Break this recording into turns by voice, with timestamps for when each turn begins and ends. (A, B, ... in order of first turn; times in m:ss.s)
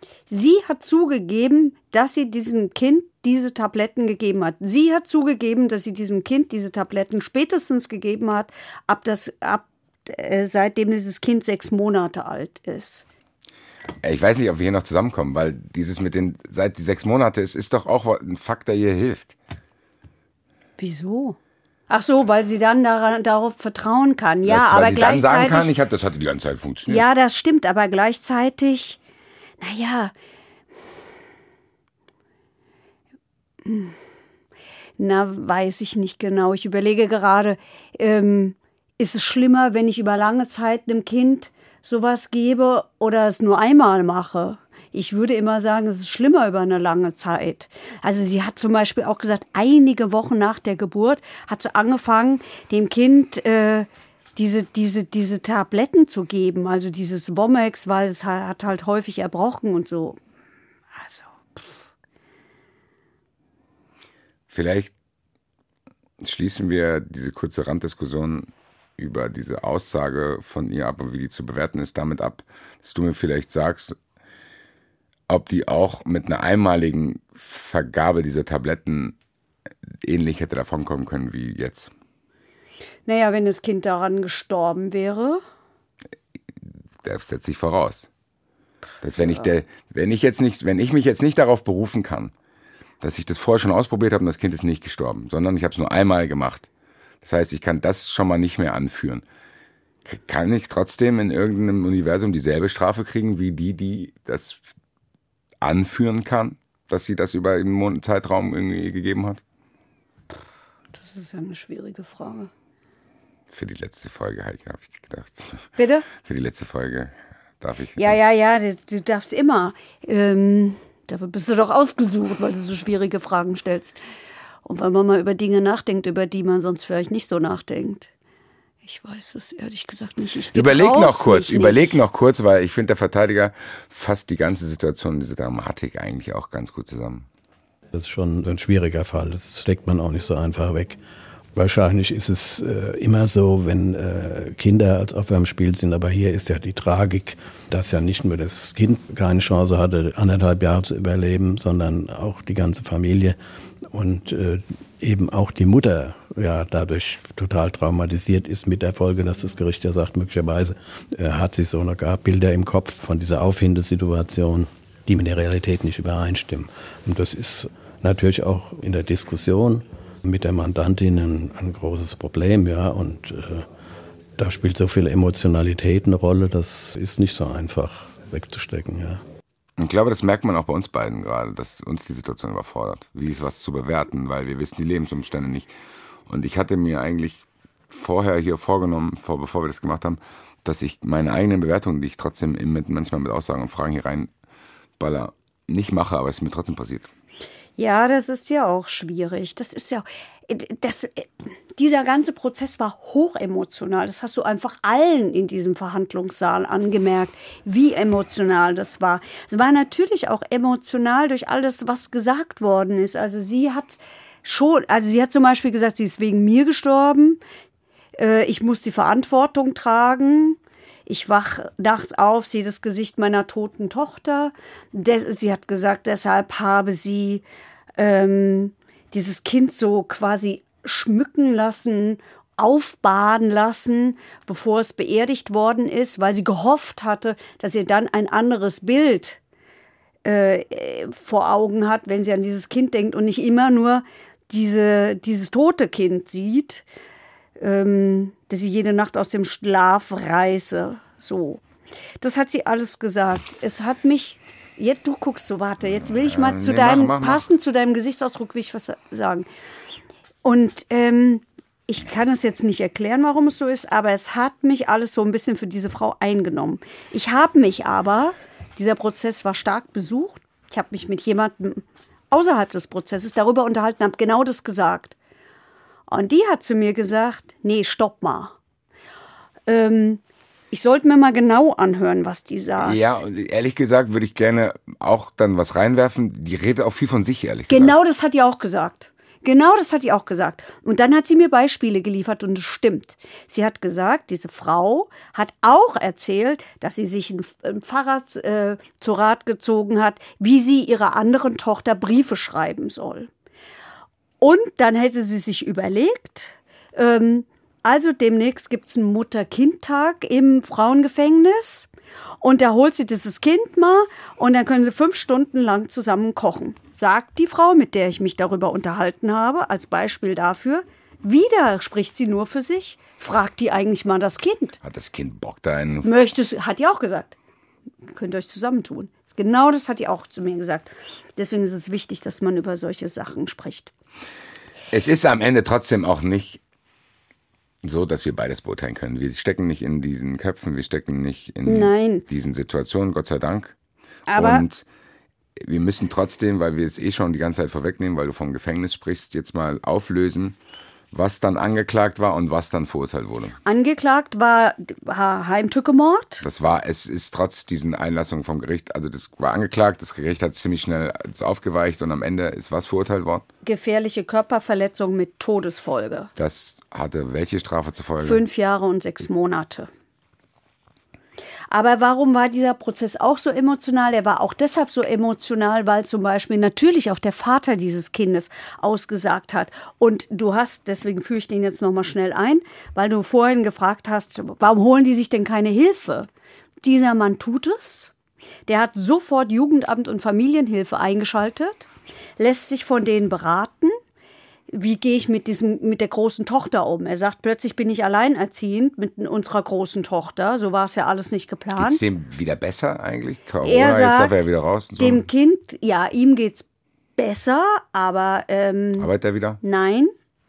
0:00.3-0:13.0 A
0:14.0-0:19.4 B
0:20.8-0:21.4 A
0:21.9-0:25.7 A
0:24.4-0:27.0 B
0:26.9-0:29.0 A
0:29.6-0:30.1 A
0:33.6-0:33.9 A
0:35.0-1:00.2 A
1:00.9-1:01.6 A
1:04.5-1:04.9 B
1:06.2-1:14.0 B
1:15.3-1:19.2 B
1:19.9-1:21.9 B
1:23.0-1:25.4 A
1:26.6-1:28.1 B
1:29.0-1:32.3 B
1:29.2-1:29.4 A
1:33.0-1:36.7 B
1:37.2-1:39.2 B
1:40.0-1:44.6 B
1:45.6-1:49.4 B
1:50.9-1:52.5 A
1:53.5-1:58.2 B
1:55.8-1:56.1 A
1:58.0-2:04.0 A
2:04.6-2:08.1 A
2:08.8-2:12.0 A
2:10.5-2:17.2 B
2:17.9-2:21.0 C
2:21.5-2:33.4 C
2:33.9-2:53.7 C
2:54.4-2:59.2 C
2:59.8-3:05.7 B
3:06.3-3:14.3 B
3:15.0-3:17.1 B
3:17.8-3:37.4 A
3:38.2-3:47.4 A
3:48.0-3:59.4 A
4:00.2-4:06.9 A
4:07.6-4:11.6 A
4:12.2-4:19.5 A
4:16.0-4:17.5 B
4:20.4-4:35.2 A
4:36.1-4:38.5 A
4:39.7-4:40.2 A
4:40.7-4:43.1 A
4:42.8-4:47.9 B
4:47.7-5:03.3 A
5:04.4-5:11.9 A
5:12.4-5:24.8 A
5:24.8-5:26.2 B
5:26.0-5:27.4 A
5:28.1-5:33.9 A
5:34.9-5:36.6 B
5:37.8-5:43.8 B
5:41.6-5:42.2 A
5:44.3-5:44.6 A
5:44.3-5:44.9 B
5:45.6-5:50.6 B
5:51.1-5:53.6 B
5:53.6-5:56.4 A
5:56.4-6:03.4 B
6:03.6-6:06.3 A
6:06.4-6:08.4 B
6:08.2-6:09.9 A
6:11.7-6:26.3 A
6:26.8-6:28.1 A
6:28.7-6:31.9 A
6:32.4-6:34.0 A
6:34.7-6:42.0 A
6:41.8-6:45.2 B
6:43.6-6:44.4 A
6:45.0-6:46.6 A
6:47.2-6:49.1 A
6:49.0-6:49.6 B
6:49.6-6:50.1 A